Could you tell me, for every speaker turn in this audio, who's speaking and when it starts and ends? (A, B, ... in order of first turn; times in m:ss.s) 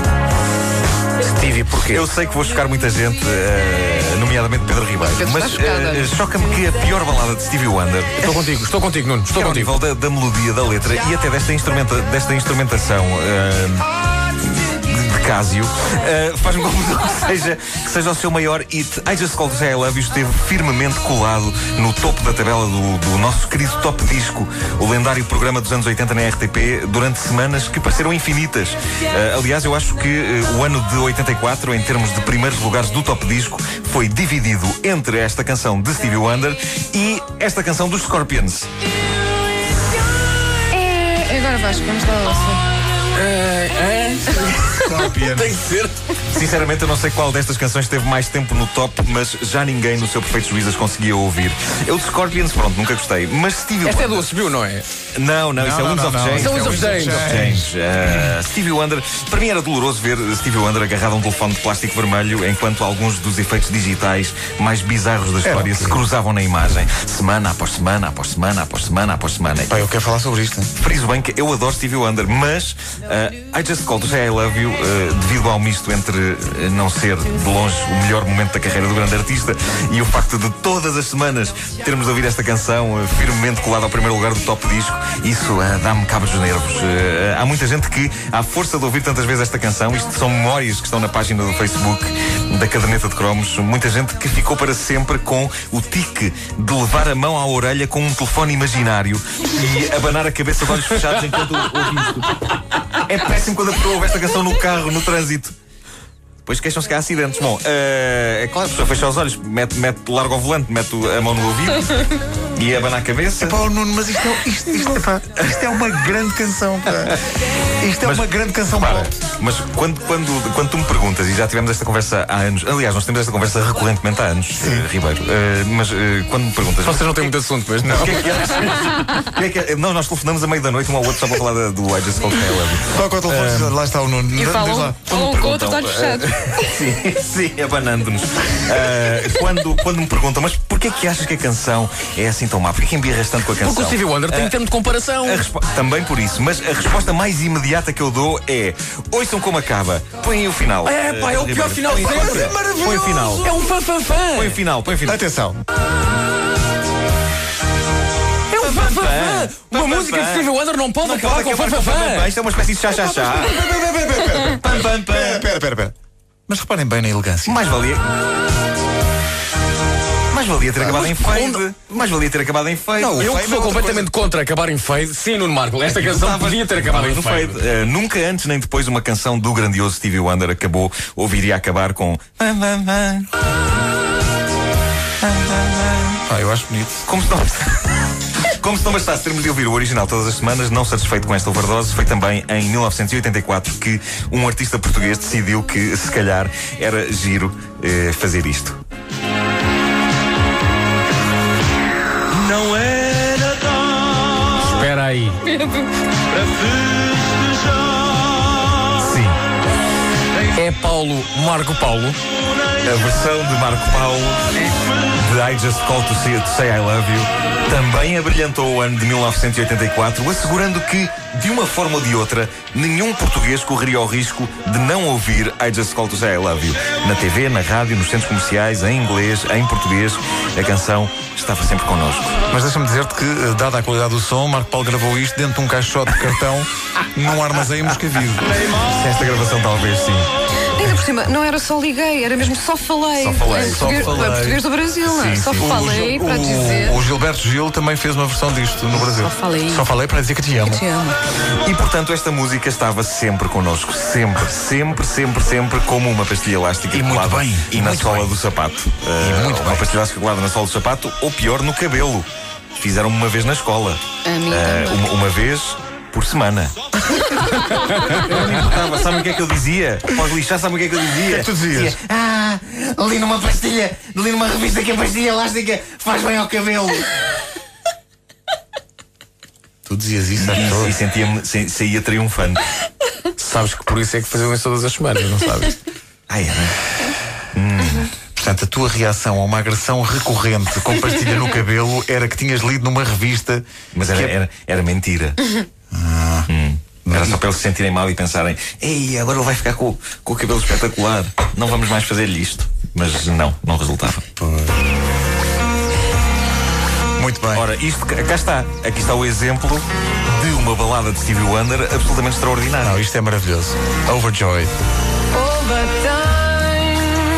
0:01.2-0:02.0 A
0:01.9-0:08.4 B
0:05.0-0:06.2 C
0:08.2-0:09.7 A
0:09.3-0:38.7 B
0:40.7-0:42.6 C
0:43.1-0:46.0 A
0:44.7-0:45.6 D
0:46.3-0:54.3 B
0:53.8-0:54.9 A
0:55.2-1:09.9 B
0:55.6-0:58.3 D
0:56.3-0:57.3 A
1:05.4-1:06.0 D
1:09.7-1:10.7 D
1:10.8-1:45.6 B
1:41.2-1:41.6 A
1:46.4-1:53.6 B
1:53.4-1:57.2 D
1:57.8-1:59.1 D
1:58.0-2:07.3 B
2:04.6-2:04.9 D
2:06.8-2:08.8 A
2:07.8-2:08.2 D
2:07.8-2:13.8 B
2:12.9-2:15.0 D
2:14.4-2:16.9 C
2:15.0-2:24.6 B
2:23.6-2:25.5 A
2:25.2-2:33.5 B
2:30.8-2:34.6 A
2:34.4-2:35.2 B
2:35.0-2:35.6 D
2:38.5-2:42.4 A
2:38.6-2:40.5 B
2:41.0-2:43.6 B
2:43.1-2:46.0 D
2:44.6-2:45.5 B
2:46.5-2:47.7 D
2:47.5-2:48.0 B
2:50.3-2:53.4 B
2:50.9-2:51.6 A
2:53.0-2:54.1 D
2:53.2-2:57.6 A
2:55.9-3:03.3 B
3:05.2-3:06.2 B
3:06.2-3:07.1 D
3:07.0-3:08.0 B
3:08.6-3:18.8 B
3:22.3-3:24.4 B
3:24.6-3:25.4 A
3:25.5-3:25.9 C
3:29.0-3:29.4 B
3:30.5-3:32.2 A
3:32.8-3:34.6 B
3:35.2-3:52.4 B
3:52.5-3:58.6 D
3:58.6-4:00.3 B
4:00.8-4:07.0 C
4:03.2-4:04.4 B
4:03.5-4:04.6 D
4:05.0-4:06.0 B
4:05.6-4:10.8 D
4:09.0-4:09.8 C
4:10.6-4:11.2 C
4:11.6-4:26.8 B
4:16.9-4:18.4 D
4:19.2-4:19.9 D
4:24.2-4:25.0 C
4:28.0-4:37.1 B
4:31.3-4:32.0 D
4:39.9-4:41.0 D
4:40.4-4:42.6 B
4:43.4-4:45.8 A
4:46.3-4:46.8 B
4:47.5-4:48.1 B
4:48.4-4:54.4 D
4:53.9-4:55.4 B
4:55.9-4:56.5 D
4:56.5-5:04.2 B
4:57.1-4:57.4 D
5:04.4-5:04.8 D
5:07.2-5:07.7 D
5:07.5-5:13.0 B
5:12.8-5:14.7 D
5:15.6-5:16.6 C